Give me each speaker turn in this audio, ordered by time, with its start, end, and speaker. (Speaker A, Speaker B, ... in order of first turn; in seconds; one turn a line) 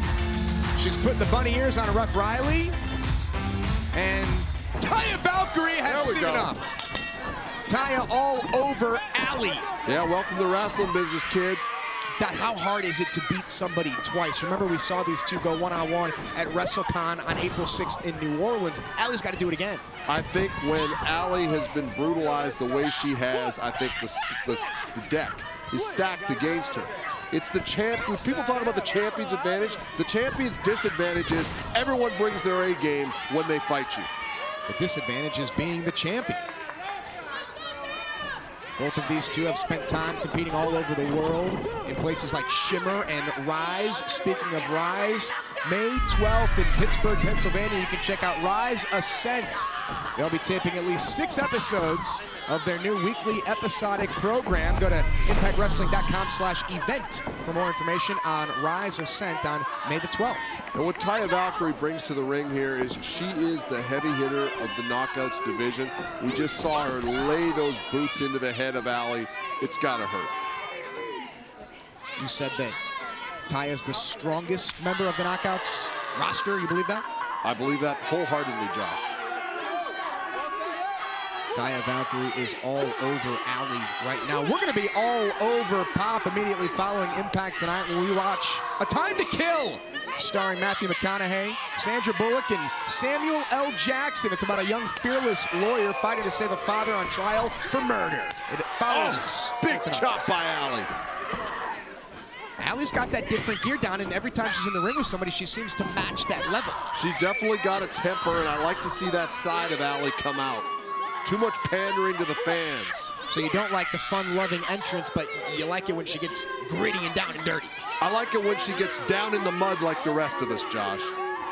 Speaker A: 0.8-2.8
Speaker A: 3.9-6.7
Speaker B: 5.8-6.5
Speaker A: 7.7-9.7
Speaker B: 9.8-11.6
Speaker A: 12.2-19.8
Speaker B: 20.1-34.1
Speaker A: 34.7-36.4
Speaker A: 38.8-60.5
Speaker B: 60.7-70.3
Speaker A: 72.2-72.8
Speaker A: 73.5-77.0
Speaker B: 77.4-79.2
Speaker A: 81.5-100.1
Speaker B: 98.9-100.9
Speaker A: 102.6-106.8
Speaker B: 106.9-110.7
Speaker B: 111.2-113.1
Speaker A: 113.3-117.7
Speaker B: 118.0-121.2